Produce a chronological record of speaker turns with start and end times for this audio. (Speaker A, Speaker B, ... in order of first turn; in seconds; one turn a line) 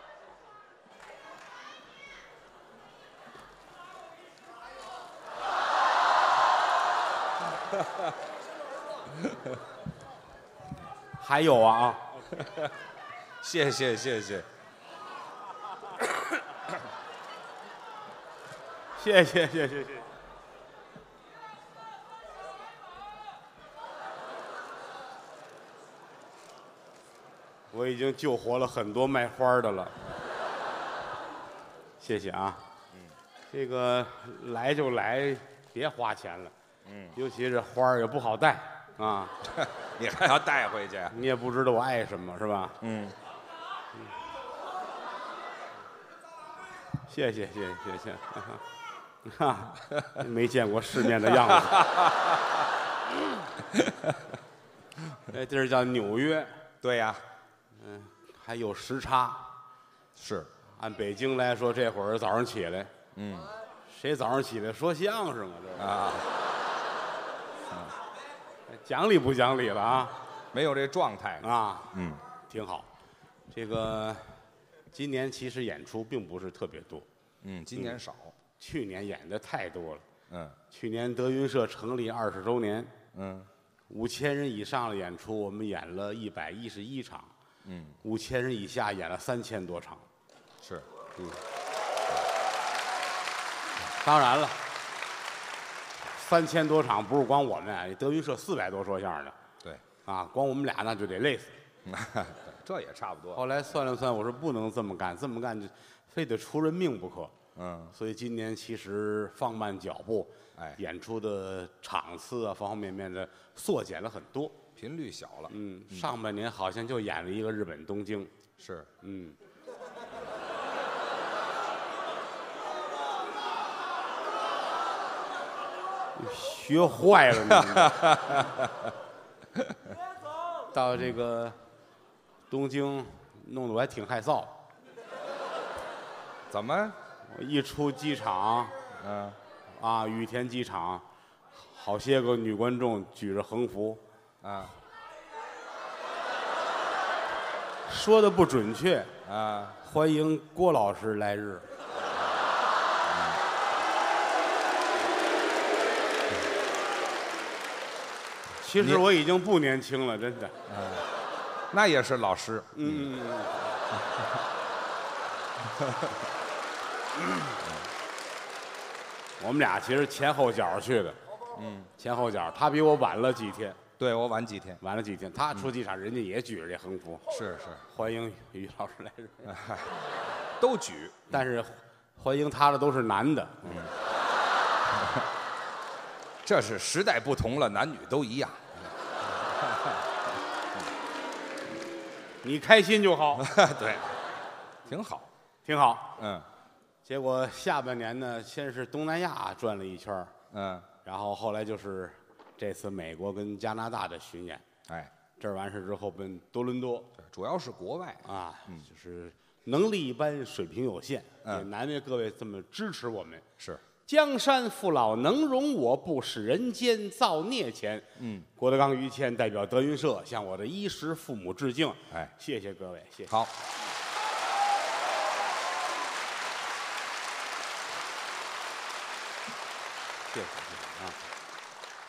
Speaker A: 7.7-8.1
Speaker A: 9.2-9.6
Speaker B: 11.2-12.3
Speaker A: 12.4-12.7
Speaker A: 13.4-14.4
Speaker B: 19.0-20.1
Speaker B: 27.7-30.0
Speaker B: 32.0-32.6
Speaker B: 33.5-36.5
Speaker A: 36.8-37.2
Speaker B: 37.1-39.3
Speaker A: 39.4-41.2
Speaker B: 41.1-42.8
Speaker A: 42.8-43.1
Speaker B: 47.0-48.6
Speaker B: 49.2-51.9
Speaker A: 51.1-52.6
Speaker A: 53.7-54.2
Speaker B: 55.3-56.6
Speaker A: 56.8-57.2
Speaker B: 57.7-59.5
Speaker A: 60.1-60.5
Speaker B: 60.8-62.9
Speaker A: 63.1-63.5
Speaker B: 63.9-65.9
Speaker A: 65.8-66.4
Speaker A: 67.7-68.0
Speaker B: 68.7-70.2
Speaker A: 70.5-72.2
Speaker B: 71.4-71.9
Speaker B: 72.5-72.9
Speaker B: 73.5-77.1
Speaker A: 77.4-78.3
Speaker B: 78.6-80.1
Speaker A: 80.3-80.6
Speaker B: 80.7-82.9
Speaker A: 83.1-83.5
Speaker B: 83.9-87.3
Speaker A: 87.6-88.0
Speaker B: 88.0-90.0
Speaker A: 90.6-90.9
Speaker B: 94.0-94.6
Speaker B: 96.0-99.3
Speaker B: 100.0-101.6
Speaker A: 101.8-103.4
Speaker B: 103.3-107.3
Speaker A: 107.5-107.9
Speaker B: 107.9-114.6
Speaker A: 114.8-116.1
Speaker B: 115.5-118.3
Speaker A: 118.6-118.9
Speaker B: 119.0-119.4
Speaker B: 126.2-128.4
Speaker A: 127.5-128.9
Speaker B: 130.7-131.6
Speaker B: 132.5-134.5
Speaker A: 136.5-137.0
Speaker B: 137.2-138.8
Speaker A: 138.9-139.4
Speaker B: 139.7-141.1
Speaker B: 141.6-144.0
Speaker A: 144.4-144.8
Speaker B: 147.9-149.1
Speaker A: 149.2-149.8
Speaker B: 149.8-151.7
Speaker A: 153.1-153.4
Speaker B: 158.6-160.6
Speaker A: 158.8-159.0
Speaker A: 160.7-161.1
Speaker A: 161.7-163.1
Speaker B: 162.7-163.8
Speaker A: 163.9-164.4
Speaker A: 165.7-166.2
Speaker A: 167.6-167.9
Speaker B: 169.4-171.2
Speaker A: 171.5-171.9
Speaker B: 172.0-173.8
Speaker A: 174.0-174.8
Speaker B: 174.8-177.3
Speaker A: 177.3-177.8
Speaker B: 177.9-179.6
Speaker A: 179.4-180.0
Speaker A: 180.6-181.4
Speaker B: 181.3-183.9
Speaker A: 183.7-183.9
Speaker A: 186.4-190.1
Speaker B: 192.4-193.5
Speaker A: 193.4-194.2
Speaker A: 194.9-195.3
Speaker B: 195.7-196.2
Speaker A: 196.2-196.5
Speaker B: 197.1-200.3
Speaker A: 200.5-200.9
Speaker B: 201.0-204.6
Speaker A: 204.9-205.1
Speaker B: 205.4-207.1
Speaker A: 207.2-208.8
Speaker B: 208.2-213.5
Speaker B: 214.1-223.3
Speaker A: 218.2-218.5
Speaker B: 230.3-231.2